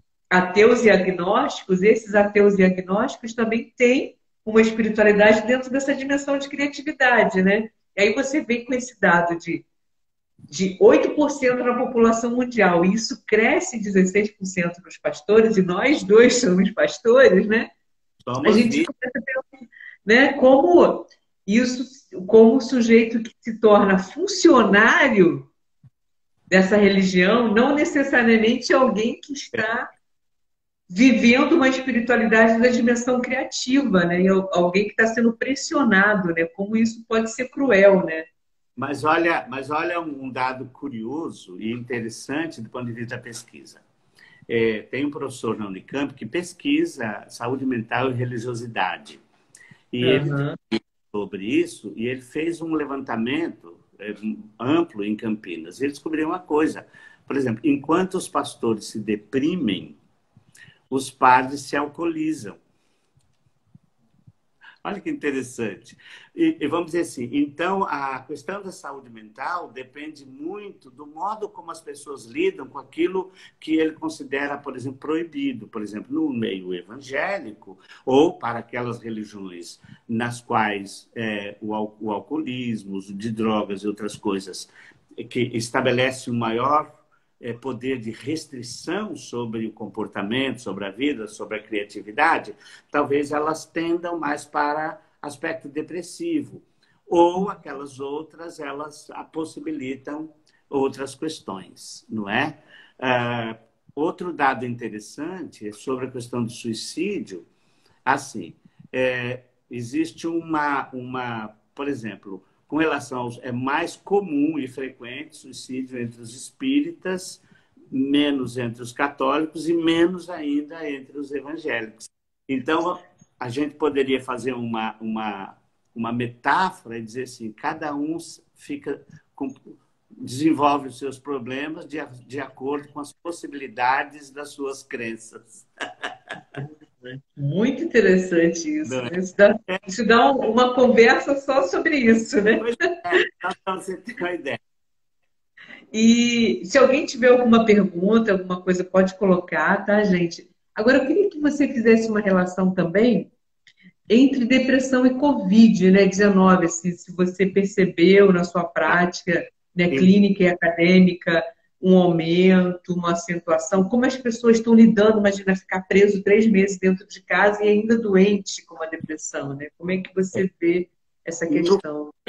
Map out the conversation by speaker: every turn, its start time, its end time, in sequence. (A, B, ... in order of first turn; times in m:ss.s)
0:00.3-0:09.6 A
0:10.5-0:17.7 A
0:18.2-0:18.9 B
0:18.4-0:19.4 A
0:20.0-0:25.5 A
0:26.5-0:29.9 A
0:30.9-0:38.2 A
0:38.8-0:43.8 B
0:44.5-0:49.2 B
0:49.9-1:00.0 B
0:50.0-0:50.6 A
1:00.9-1:02.6 B
1:04.8-1:47.5 B
1:48.0-2:16.1 B
2:16.6-2:22.9 A
2:18.8-2:19.1 B
2:22.6-2:24.6 B
2:25.9-2:33.3 A
2:34.1-2:52.1 A
2:51.5-2:51.8 B